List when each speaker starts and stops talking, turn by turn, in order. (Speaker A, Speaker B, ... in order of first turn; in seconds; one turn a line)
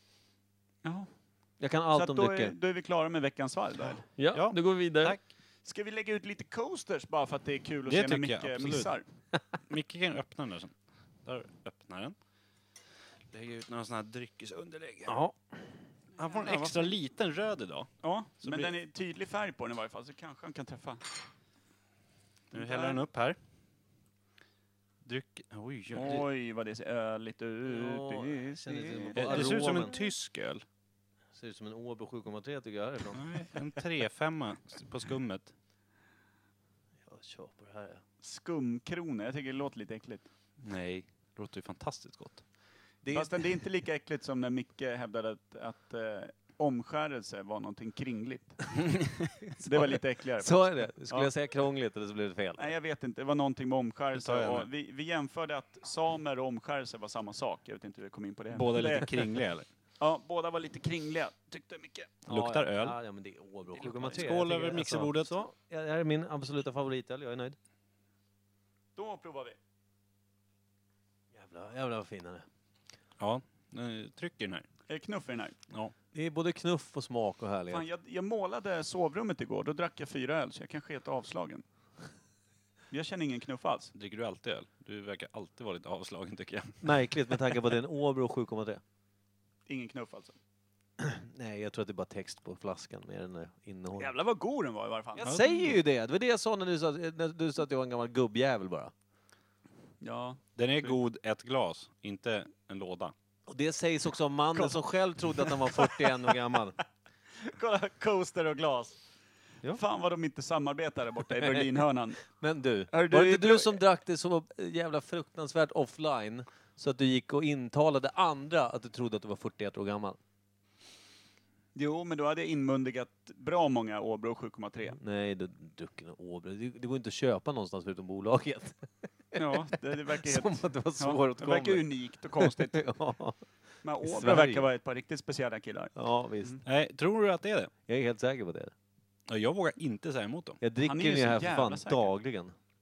Speaker A: 0.8-1.1
Speaker B: 1.6-2.5
Speaker A: 1.9-4.0
Speaker B: 4.2-5.2
Speaker C: 4.3-5.2
Speaker A: 5.6-9.0
Speaker C: 7.9-8.9
Speaker C: 9.7-12.1
Speaker C: 13.3-15.2
Speaker B: 15.1-15.4
Speaker A: 16.2-16.9
Speaker C: 16.2-17.9
Speaker A: 18.0-21.0
Speaker C: 18.4-18.7
Speaker A: 22.5-23.0
Speaker C: 22.5-23.4
Speaker C: 25.0-26.2
Speaker A: 25.9-29.7
Speaker B: 27.6-29.9
Speaker C: 29.1-30.6
Speaker B: 31.3-33.2
Speaker C: 33.1-35.5
Speaker B: 37.0-38.0
Speaker A: 38.2-40.2
Speaker C: 40.6-42.4
Speaker B: 43.0-43.3
Speaker A: 43.1-48.9
Speaker B: 49.6-52.7
Speaker A: 49.6-51.3
Speaker A: 52.6-59.2
Speaker C: 54.1-54.7
Speaker C: 58.5-59.7
Speaker A: 60.0-62.2
Speaker B: 62.2-67.6
Speaker C: 62.3-63.0
Speaker A: 63.7-64.2
Speaker C: 64.1-65.3
Speaker A: 69.0-69.6
Speaker B: 71.3-72.4
Speaker C: 73.2-74.7
Speaker A: 74.9-75.5
Speaker B: 76.1-77.8
Speaker A: 77.7-81.6
Speaker A: 82.9-83.9
Speaker C: 83.9-86.9
Speaker B: 86.8-88.8
Speaker A: 89.7-90.3
Speaker B: 91.0-94.1
Speaker A: 94.0-95.4
Speaker B: 95.2-98.9
Speaker C: 95.2-95.5
Speaker A: 100.0-101.0
Speaker C: 100.5-103.1
Speaker B: 103.5-106.8
Speaker A: 107.4-109.0
Speaker A: 109.7-112.2
Speaker B: 111.4-111.7
Speaker B: 112.2-120.2
Speaker A: 112.9-113.8
Speaker A: 121.7-125.0
Speaker B: 125.0-131.8
Speaker A: 129.3-132.8
Speaker B: 132.4-133.4
Speaker A: 133.8-136.6
Speaker B: 134.0-134.7
Speaker B: 135.9-136.6
Speaker C: 136.6-137.7
Speaker B: 137.9-138.7
Speaker C: 139.3-140.6
Speaker B: 140.6-142.5
Speaker A: 140.8-142.1